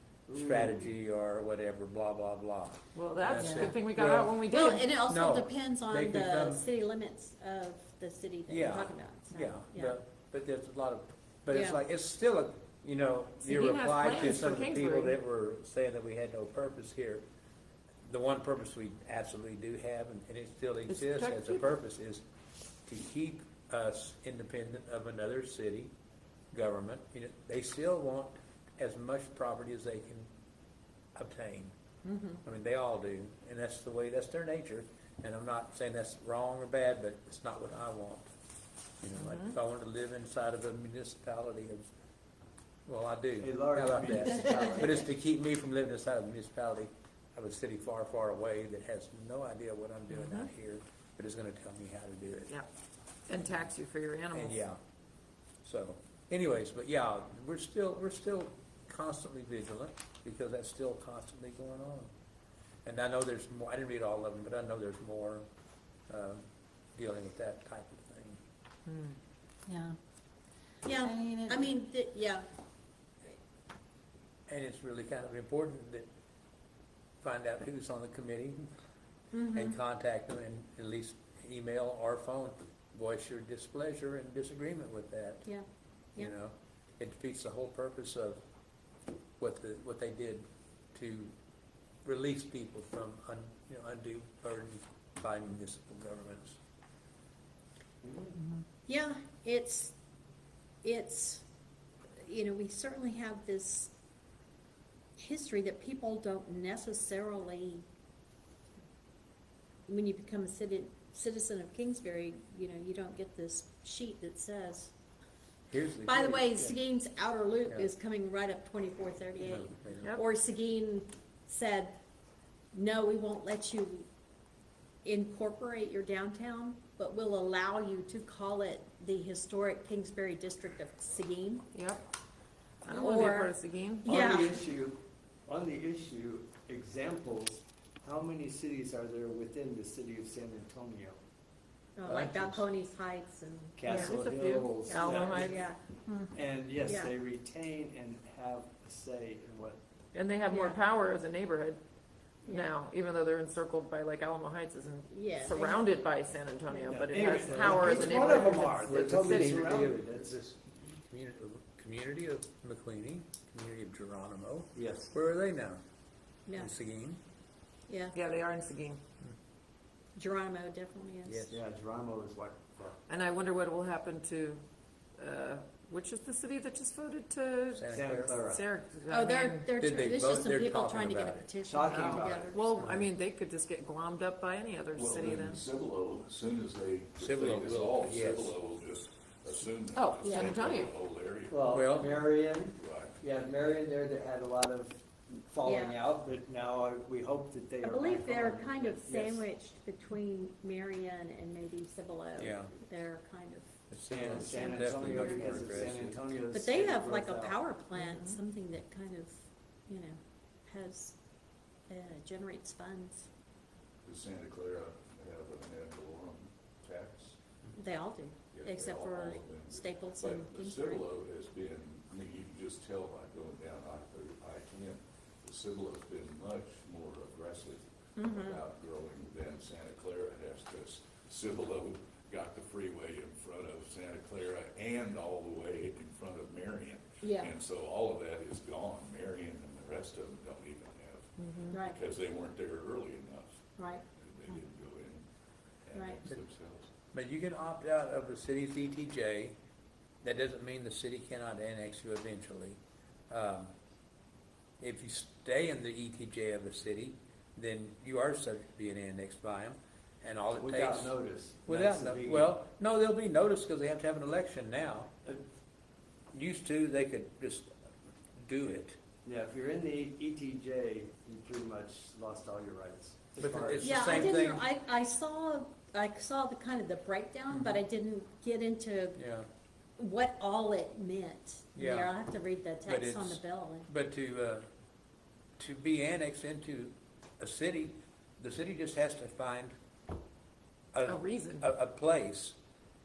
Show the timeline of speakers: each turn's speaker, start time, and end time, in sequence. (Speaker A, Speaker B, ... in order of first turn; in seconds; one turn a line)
Speaker A: 0.3-0.9
Speaker B: 0.3-4.3
Speaker C: 2.9-4.9
Speaker D: 4.5-9.9
Speaker B: 5.1-6.6
Speaker B: 8.5-17.2
Speaker D: 11.5-11.8
Speaker C: 13.4-15.2
Speaker B: 18.0-22.2
Speaker C: 20.9-21.6
Speaker B: 22.9-25.9
Speaker B: 26.5-30.3
Speaker B: 31.1-31.7
Speaker C: 32.0-32.4
Speaker B: 32.4-38.3
Speaker B: 39.0-41.9
Speaker C: 39.2-39.5
Speaker B: 42.9-52.5
Speaker A: 43.4-45.0
Speaker C: 50.1-50.5
Speaker C: 53.3-54.6
Speaker B: 54.3-54.8
Speaker B: 55.6-62.1
Speaker B: 62.8-65.5
Speaker B: 66.1-68.4
Speaker C: 68.8-69.2
Speaker D: 70.8-72.4
Speaker B: 74.5-76.1
Speaker B: 77.2-78.7
Speaker D: 79.3-79.8
Speaker B: 79.5-85.5
Speaker B: 86.2-88.4
Speaker B: 89.4-91.3
Speaker B: 92.0-96.6
Speaker A: 98.0-98.3
Speaker D: 98.9-99.9
Speaker D: 100.8-101.4
Speaker D: 102.2-103.9
Speaker D: 105.2-107.8
Speaker D: 109.9-114.9
Speaker B: 115.7-116.8
Speaker D: 116.0-122.0
Speaker B: 119.4-120.1
Speaker D: 122.7-124.1
Speaker D: 125.0-131.7
Speaker C: 131.7-132.0
Speaker C: 132.8-134.1
Speaker D: 132.9-133.5
Speaker A: 134.0-141.2
Speaker D: 134.0-134.6
Speaker D: 142.0-144.1
Speaker B: 142.1-142.7
Speaker A: 143.8-145.6
Speaker C: 143.8-145.6
Speaker D: 144.9-145.8
Speaker A: 146.3-149.8
Speaker D: 146.8-147.1
Speaker C: 150.1-151.8
Speaker D: 150.5-150.8
Speaker D: 152.4-152.7
Speaker C: 152.5-159.8
Speaker D: 155.1-156.0
Speaker D: 156.7-158.4
Speaker A: 156.9-160.4
Speaker B: 157.8-165.8
Speaker A: 164.7-165.1
Speaker D: 166.4-166.7
Speaker B: 166.5-167.2
Speaker D: 167.9-168.1
Speaker C: 168.1-169.0
Speaker D: 170.2-171.5
Speaker B: 171.2-171.6
Speaker A: 171.5-173.0
Speaker C: 173.1-174.6
Speaker C: 175.2-179.7
Speaker B: 177.7-178.4
Speaker A: 177.9-178.6
Speaker D: 179.1-182.7
Speaker B: 179.8-181.5
Speaker A: 181.6-182.5
Speaker C: 181.9-185.6
Speaker B: 182.8-183.1
Speaker E: 184.9-191.7
Speaker B: 187.2-188.5
Speaker C: 189.9-190.9
Speaker D: 190.2-190.5
Speaker A: 191.5-199.4
Speaker B: 191.7-192.2
Speaker E: 192.8-193.2
Speaker D: 195.6-195.9
Speaker D: 197.8-203.7
Speaker B: 202.4-202.7
Speaker B: 203.9-206.2
Speaker A: 204.1-207.6
Speaker D: 204.3-205.9
Speaker D: 206.5-211.2
Speaker C: 207.9-208.4
Speaker D: 211.9-213.3
Speaker E: 214.0-217.4
Speaker D: 217.8-221.0
Speaker E: 218.5-245.2
Speaker D: 228.2-228.6
Speaker D: 237.2-237.5
Speaker C: 241.4-241.8
Speaker D: 241.7-242.0
Speaker D: 243.8-244.0
Speaker E: 245.9-246.9
Speaker D: 245.9-246.2
Speaker B: 247.1-249.6
Speaker B: 250.2-252.8
Speaker B: 253.3-253.7
Speaker B: 254.8-261.1
Speaker A: 260.5-262.5
Speaker B: 261.6-265.1
Speaker B: 266.3-267.7
Speaker B: 268.3-269.0
Speaker A: 269.2-274.4
Speaker B: 273.4-274.6
Speaker D: 273.8-279.2
Speaker B: 277.5-277.8
Speaker B: 279.1-279.5
Speaker D: 280.0-283.9
Speaker B: 281.7-282.1
Speaker B: 282.9-284.6
Speaker B: 285.6-289.7
Speaker B: 290.9-292.6
Speaker C: 291.1-291.7